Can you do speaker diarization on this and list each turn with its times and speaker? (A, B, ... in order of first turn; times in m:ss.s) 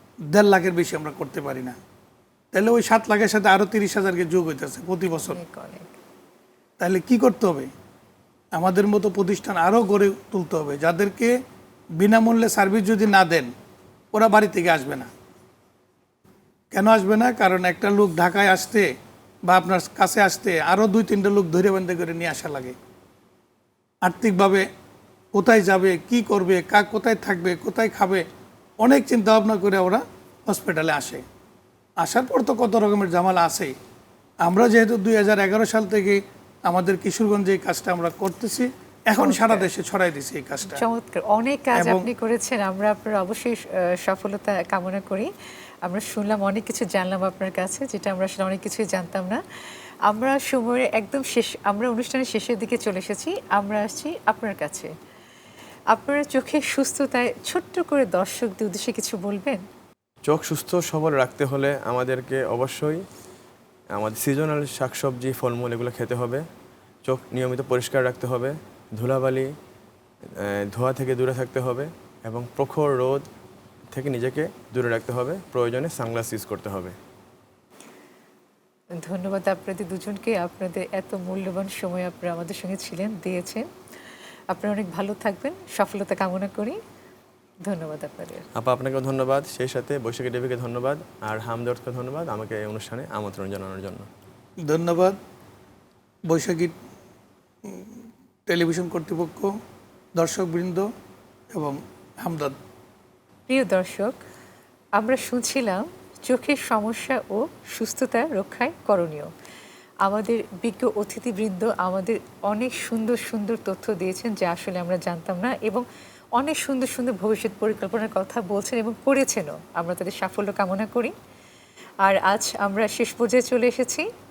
0:00.3-0:01.8 A
0:02.5-0:05.4 A
0:05.2-0:06.0 B
0:06.8-0:07.7 A
0:08.5-0:11.4 A
0:12.0-0:13.5 A
0:14.1-0:15.1 A
0:16.7-0:18.9 A
0:19.4-0:22.8 A
0:24.0-0:24.7 A
0:25.3-0:28.2 A
0:28.8-0:31.2 A
0:32.0-0:33.8 A
0:34.4-0:40.8 A
0:39.2-0:39.7 B
0:40.6-0:45.3 B
0:41.8-0:42.1 A
0:45.8-0:49.4 B
0:50.1-0:54.9 B
0:55.9-0:59.6 B
1:00.3-1:03.0 C
1:04.0-1:06.4 C
1:07.1-1:09.5 C
1:10.4-1:13.2 C
1:13.9-1:17.0 C
1:19.0-1:23.6 B
1:24.5-1:26.8 B
1:27.6-1:28.5 B
1:28.6-1:34.1 C
1:34.7-1:35.2 A
1:36.3-1:36.7 A
1:38.5-1:39.5 A
1:40.2-1:40.9 A
1:41.5-1:42.6 A
1:43.5-1:44.2 B
1:45.0-1:49.3 B
1:50.0-1:55.9 B
1:56.4-2:01.1 B
2:02.0-2:04.1 B